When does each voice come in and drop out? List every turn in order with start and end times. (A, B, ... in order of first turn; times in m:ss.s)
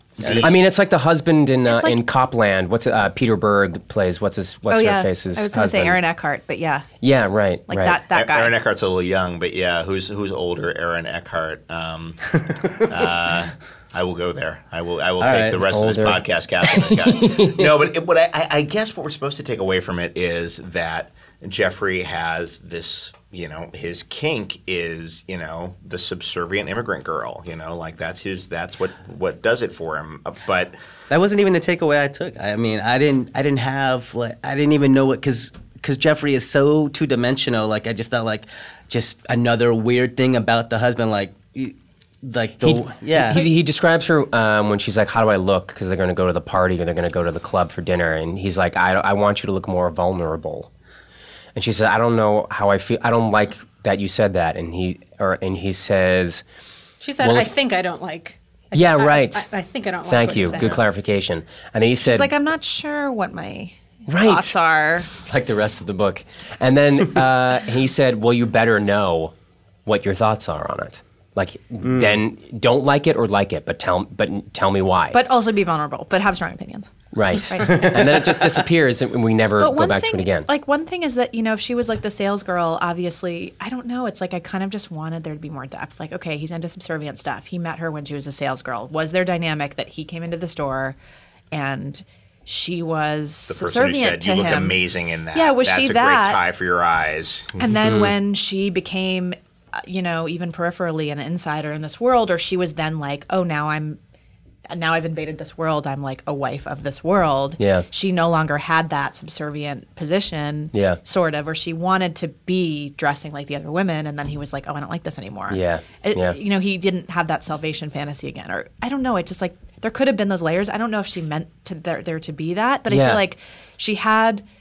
0:00.2-0:00.5 A
0:00.4-0:06.0 B
0:01.7-0:02.0 C
0:04.7-0:06.9 C
0:07.0-0:08.0 B
0:07.7-0:08.5 C
0:08.1-0:30.8 A
0:15.2-0:15.6 D
0:15.7-0:17.8 B
0:31.1-0:43.4 D
0:42.6-0:50.7 B
0:51.6-0:56.4 B
0:57.0-1:00.8 E
0:57.2-0:57.5 B
0:58.7-0:59.5 B
1:00.0-1:02.3 B
1:02.0-1:05.1 C
1:04.1-1:09.3 B
1:09.8-1:15.2 B
1:11.8-1:12.2 D
1:15.1-1:17.9 C
1:17.1-1:20.5 B
1:17.6-1:18.6 D
1:19.6-1:31.0 C
1:31.5-1:34.8 C
1:33.5-1:37.6 A
1:35.3-1:36.4 C
1:37.6-1:44.0 C
1:44.7-2:04.4 C
1:47.6-1:47.9 B
1:50.7-1:51.0 B
1:55.5-1:56.4 B
2:02.9-2:03.2 B